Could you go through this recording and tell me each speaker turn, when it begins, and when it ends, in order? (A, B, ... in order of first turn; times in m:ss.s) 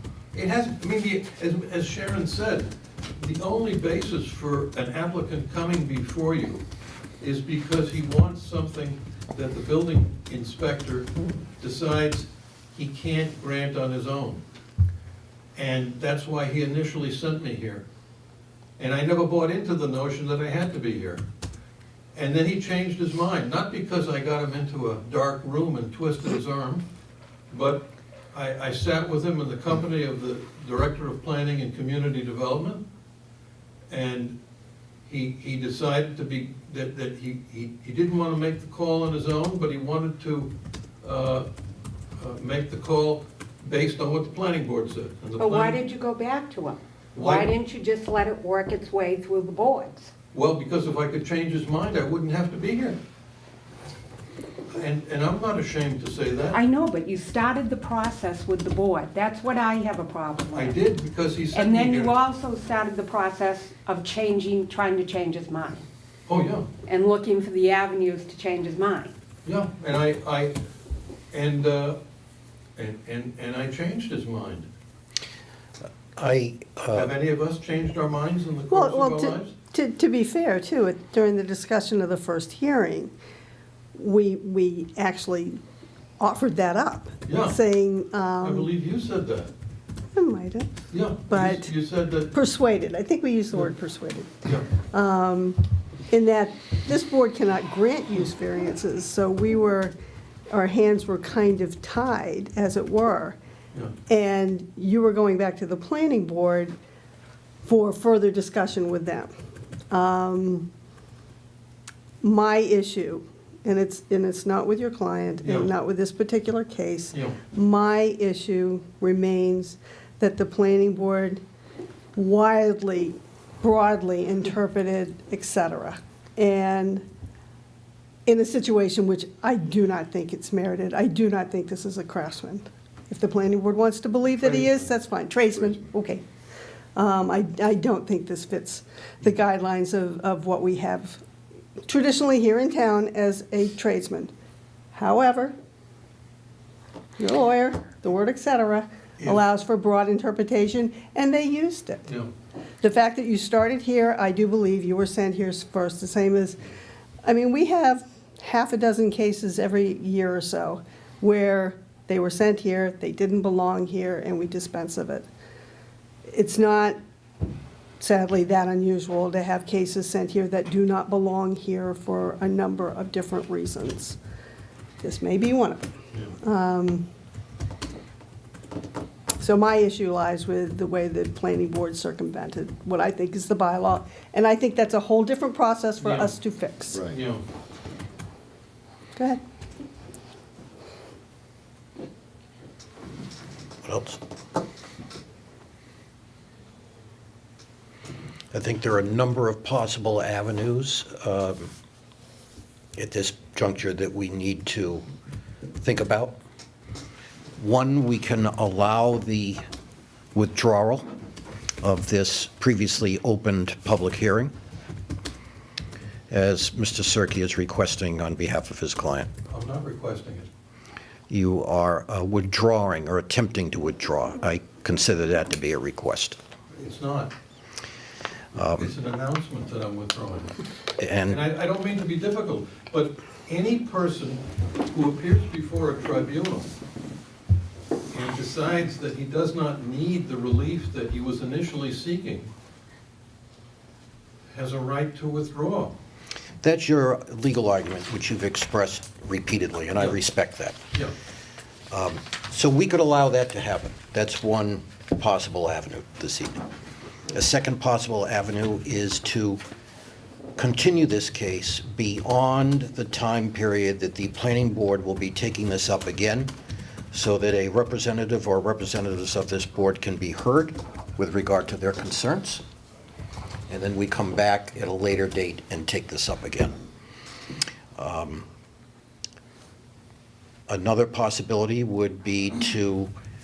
0:00.3-0:06.6 A
0:07.2-0:14.4 A
0:15.6-0:17.8 A
0:18.8-0:21.2 A
0:22.2-0:26.8 A
0:27.5-0:32.8 A
0:33.9-0:34.4 A
0:35.1-0:41.5 A
0:42.2-0:45.8 A
0:45.4-0:50.1 B
0:47.2-0:47.5 A
0:50.3-0:53.0 A
0:54.7-0:56.6 A
0:56.5-1:00.8 B
1:00.5-1:02.1 A
1:01.5-1:05.8 B
1:06.3-1:06.7 A
1:06.8-1:09.1 B
1:09.4-1:10.6 A
1:11.3-1:12.0 A
1:12.8-1:14.7 A
1:16.2-1:17.1 C
1:16.9-1:19.5 A
1:18.7-1:23.1 D
1:24.0-1:25.6 D
1:26.2-1:28.7 D
1:27.3-1:27.6 A
1:28.4-1:29.5 A
1:30.1-1:31.7 D
1:30.9-1:32.3 A
1:32.3-1:34.3 D
1:34.9-1:39.9 D
1:40.5-1:43.4 D
1:44.1-1:46.8 D
1:47.6-1:49.3 D
1:49.9-1:50.7 D
1:52.2-2:01.4 D
1:55.4-1:55.7 A
1:57.1-1:57.4 A
2:02.2-2:07.0 D
2:08.3-2:16.2 D
2:17.0-2:21.2 D
2:21.9-2:24.3 D
2:24.9-2:25.6 D
2:27.2-2:32.0 D
2:32.8-2:36.6 D
2:37.2-2:45.3 D
2:46.3-2:47.0 D
2:48.0-2:54.2 D
2:55.0-2:57.1 D
2:59.4-3:07.1 D
3:06.0-3:06.4 A
3:07.1-3:07.4 A
3:13.8-3:14.2 C
3:18.5-3:21.7 C
3:23.0-3:25.0 C
3:25.8-3:26.4 C
3:27.6-3:29.6 C
3:30.3-3:31.1 C
3:31.8-3:34.5 C
3:36.3-3:39.3 C
3:39.5-3:40.5 A
3:41.3-3:46.4 C
3:46.7-3:47.3 A
3:48.6-3:48.9 C
3:48.6-3:50.5 A
3:51.0-3:51.4 C
3:51.3-3:56.7 A
3:58.1-4:02.5 A
4:04.5-4:06.0 A
4:06.6-4:10.9 C
4:11.9-4:16.6 C
4:17.3-4:19.6 C
4:20.6-4:26.5 C
4:27.1-4:32.6 C
4:33.7-4:36.8 C
4:38.0-4:38.5 C
4:40.7-4:43.1 C